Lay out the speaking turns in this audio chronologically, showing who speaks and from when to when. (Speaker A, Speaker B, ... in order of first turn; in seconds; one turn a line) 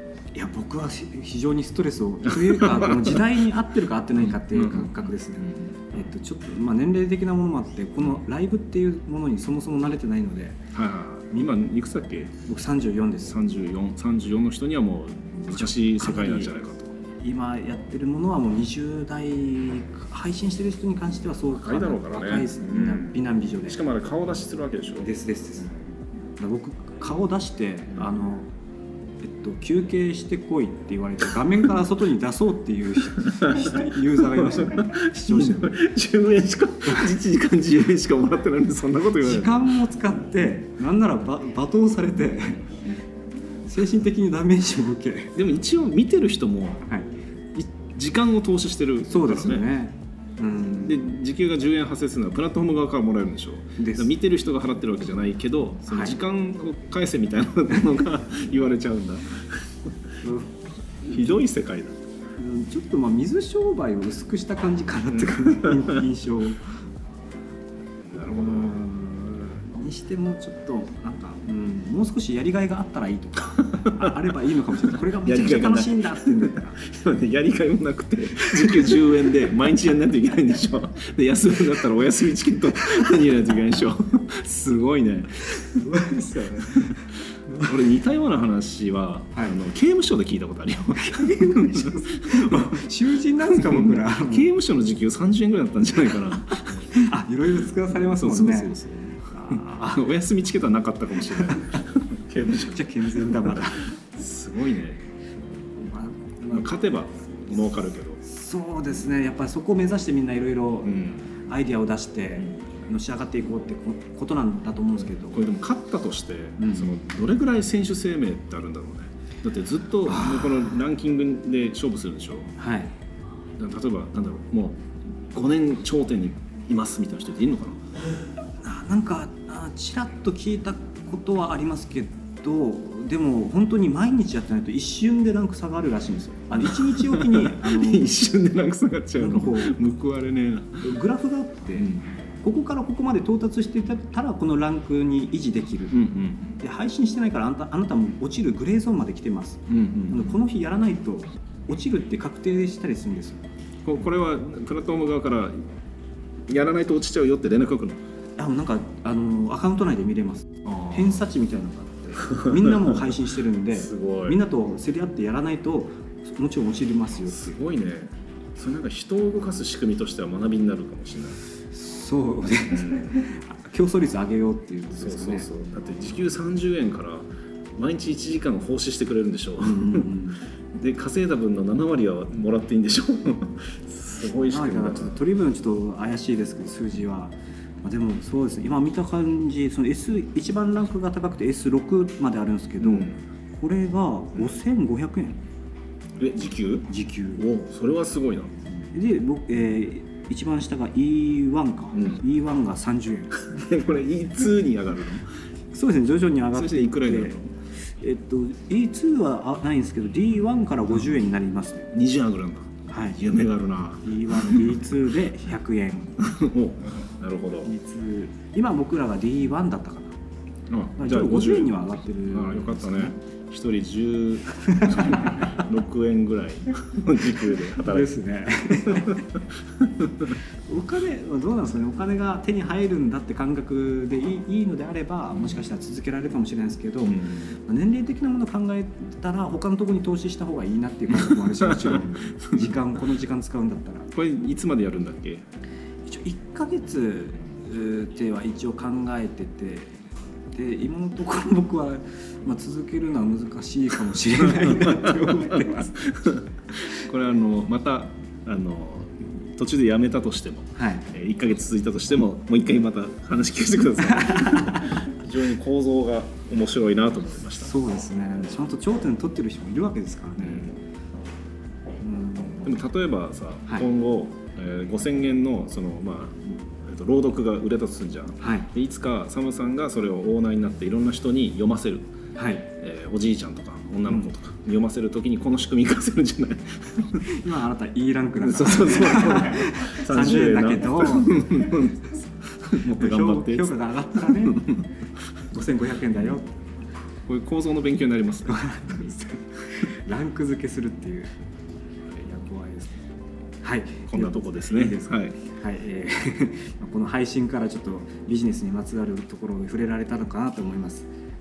Speaker A: 0.3-10.6
Speaker B: 2.3-3.2
Speaker B: 4.2-5.7
Speaker B: 10.7-12.3
Speaker A: 12.4-13.4
Speaker B: 13.3-16.9
Speaker A: 15.5-16.5
Speaker A: 17.2-23.8
Speaker B: 21.5-25.1
Speaker A: 25.0-25.8
Speaker A: 26.4-28.5
Speaker A: 29.2-35.8
Speaker B: 33.3-33.9
Speaker B: 34.5-39.7
Speaker A: 39.2-42.8
Speaker A: 43.7-45.4
Speaker B: 45.4-46.9
Speaker B: 47.5-49.6
Speaker A: 49.1-51.1
Speaker B: 50.8-59.9
Speaker A: 53.8-54.1
Speaker A: 55.9-56.2
Speaker A: 60.2-60.5
Speaker B: 61.1-62.0
Speaker A: 62.4-66.7
Speaker B: 68.0-68.8
Speaker A: 68.2-76.8
Speaker B: 73.6-74.2
Speaker B: 75.0-85.8
Speaker A: 78.6-79.0
Speaker A: 85.7-87.7
Speaker B: 87.5-92.7
Speaker A: 91.0-94.5
Speaker B: 93.5-97.0
Speaker A: 96.9-100.1
Speaker B: 97.9-105.0
Speaker A: 101.3-101.8
Speaker A: 102.5-103.9
Speaker A: 105.8-106.8
Speaker B: 106.5-108.2
Speaker A: 108.2-115.4
Speaker B: 110.9-111.2
Speaker B: 115.3-122.5
Speaker A: 116.6-117.0
Speaker A: 120.1-120.7
Speaker A: 122.6-122.9
Speaker B: 123.6-127.8
Speaker A: 128.6-138.1
Speaker B: 136.6-140.9
Speaker A: 139.2-139.8
Speaker A: 140.8-146.0
Speaker B: 141.8-142.1
Speaker B: 145.9-146.6
Speaker A: 146.6-153.4
Speaker B: 149.7-150.3
Speaker B: 153.8-155.6
Speaker B: 156.5-158.0
Speaker A: 158.4-167.6
Speaker B: 160.7-161.1
Speaker B: 162.3-162.9
Speaker B: 163.7-164.4
Speaker B: 167.3-171.4
Speaker A: 171.7-175.5
Speaker B: 172.7-173.2
Speaker B: 175.0-177.3
Speaker B: 177.8-180.1
Speaker A: 179.6-180.4
Speaker B: 180.7-185.2
Speaker A: 184.5-195.4
Speaker B: 192.8-193.2
Speaker B: 196.2-198.6
Speaker A: 196.9-197.4
Speaker A: 198.9-203.6
Speaker B: 201.9-202.2
Speaker B: 203.4-205.3
Speaker A: 205.7-207.4
Speaker B: 206.5-207.5
Speaker A: 208.0-211.9
Speaker B: 211.9-214.8
Speaker A: 212.9-213.2
Speaker A: 214.0-216.3
Speaker B: 216.2-217.7
Speaker A: 217.6-220.2
Speaker B: 220.7-221.8
Speaker A: 221.0-223.2
Speaker B: 222.3-228.2
Speaker A: 224.5-225.4
Speaker A: 227.8-229.2
Speaker B: 228.7-230.3
Speaker A: 230.7-244.1
Speaker B: 237.1-237.5
Speaker B: 241.3-242.8
Speaker B: 244.1-245.4
Speaker A: 246.1-250.0
Speaker A: 250.5-256.1
Speaker B: 254.4-267.7
Speaker A: 260.8-261.1
Speaker A: 264.1-264.9
Speaker A: 267.6-270.8
Speaker B: 270.4-270.7
Speaker A: 272.0-272.7
Speaker B: 272.6-282.1
Speaker A: 278.4-278.7
Speaker A: 282.4-282.7
Speaker B: 282.8-287.3
Speaker A: 287.2-291.5
Speaker B: 288.4-294.9
Speaker A: 292.8-294.7
Speaker A: 295.5-296.5
Speaker B: 297.3-298.9
Speaker A: 298.5-301.3
Speaker A: 302.1-303.0
Speaker A: 303.6-311.1
Speaker B: 304.1-305.4